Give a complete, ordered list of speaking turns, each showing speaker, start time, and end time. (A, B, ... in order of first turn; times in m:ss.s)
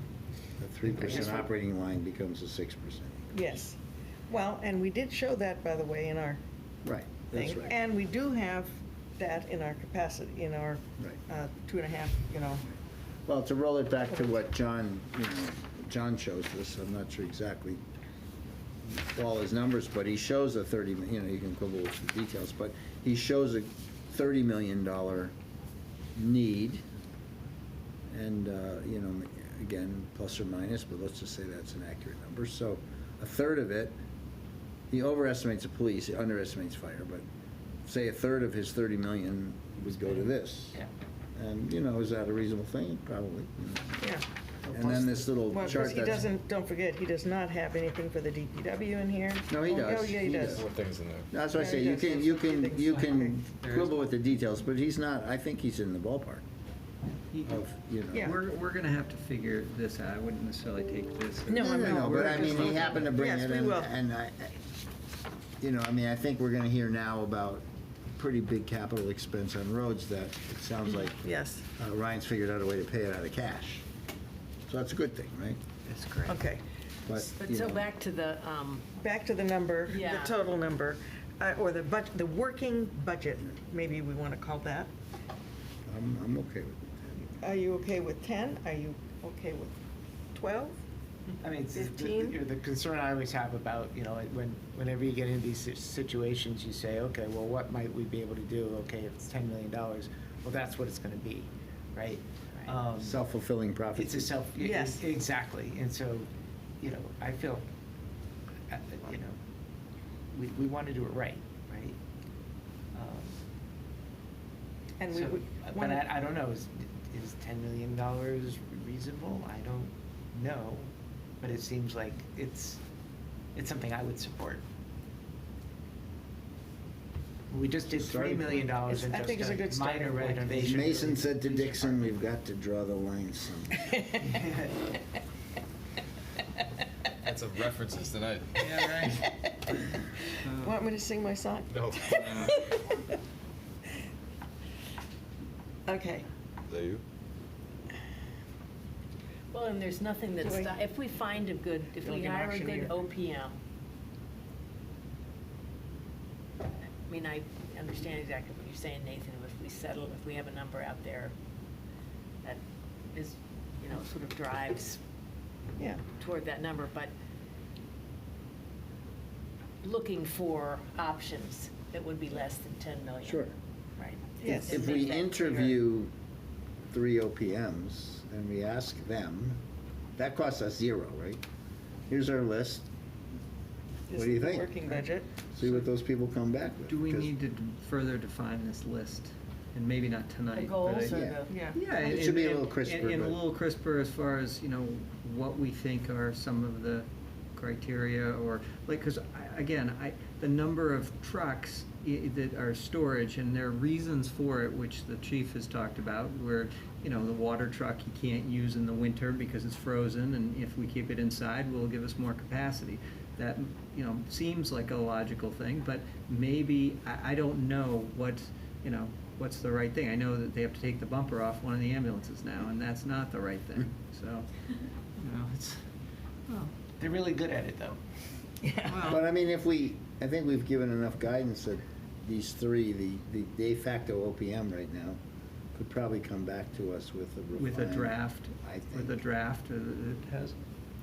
0:00.6-0:03.3 A
0:00.9-0:01.4 B
0:01.0-0:01.2 C
0:03.3-0:03.8 C
0:04.3-0:06.4 C
0:06.8-0:07.8 A
0:07.3-0:12.6 C
0:13.3-0:17.8 A
0:18.8-0:25.3 A
0:26.1-0:26.8 A
0:28.1-0:34.0 A
0:34.9-0:37.2 A
0:37.8-0:40.8 A
0:40.1-0:40.9 D
0:41.4-0:44.1 A
0:44.0-0:44.2 C
0:44.7-0:45.1 D
0:44.7-0:46.3 A
0:45.5-0:50.6 C
0:49.5-0:50.6 A
0:50.5-0:51.3 E
0:51.3-0:56.4 A
0:51.5-0:53.4 C
0:53.6-0:54.0 F
0:57.4-0:58.3 A
0:58.2-1:03.1 F
1:01.4-1:03.9 C
1:01.5-1:04.6 A
1:05.6-1:07.6 A
1:08.2-1:13.8 A
1:11.2-1:11.6 C
1:14.7-1:15.6 A
1:15.9-1:16.4 B
1:16.2-1:16.6 C
1:17.1-1:17.9 A
1:17.1-1:18.9 B
1:19.0-1:24.9 C
1:19.9-1:20.4 B
1:25.9-1:27.3 A
1:27.4-1:29.8 C
1:30.3-1:30.8 C
1:31.4-1:43.2 D
1:31.7-1:32.4 C
1:43.0-1:44.3 A
1:44.0-1:46.3 D
1:44.6-1:45.0 C
1:46.8-1:47.6 D
1:48.7-1:49.4 D
1:50.3-1:52.0 D
1:52.9-1:53.4 D
1:55.0-1:56.0 C
1:55.1-2:02.8 D
2:03.5-2:04.6 D
2:07.5-2:12.1 D
2:07.9-2:08.7 A
2:08.9-2:10.8 C
2:10.6-2:13.9 A
2:14.2-2:14.7 D
2:17.2-2:18.7 E
2:18.6-2:19.3 F
2:20.4-2:20.8 F
2:20.5-2:23.0 C
2:21.7-2:22.6 E
2:25.9-2:26.3 C
2:26.7-2:27.0 E
2:29.5-2:33.6 B
2:30.4-2:30.8 C
2:32.0-2:33.0 C
2:37.0-2:41.3 B
2:43.1-2:45.0 B
2:46.2-2:47.1 B
2:49.8-2:55.8 B
2:53.2-2:53.5 A
2:54.4-2:55.0 C
2:54.6-2:56.1 A
2:56.9-2:59.6 A
3:00.2-3:01.4 A
3:02.1-3:02.8 A
3:04.1-3:05.3 C
3:04.1-3:04.8 A
3:05.5-3:07.3 A
3:06.9-3:44.5 F
3:10.5-3:11.8 B
3:11.0-3:13.4 A
3:11.5-3:11.8 C
3:45.2-3:45.8 F
3:46.5-3:46.7 F
3:47.0-3:48.0 D
3:48.6-3:49.0 C
3:48.9-3:49.2 F
3:49.0-3:55.2 A
3:55.7-3:59.2 A
3:57.5-4:00.6 F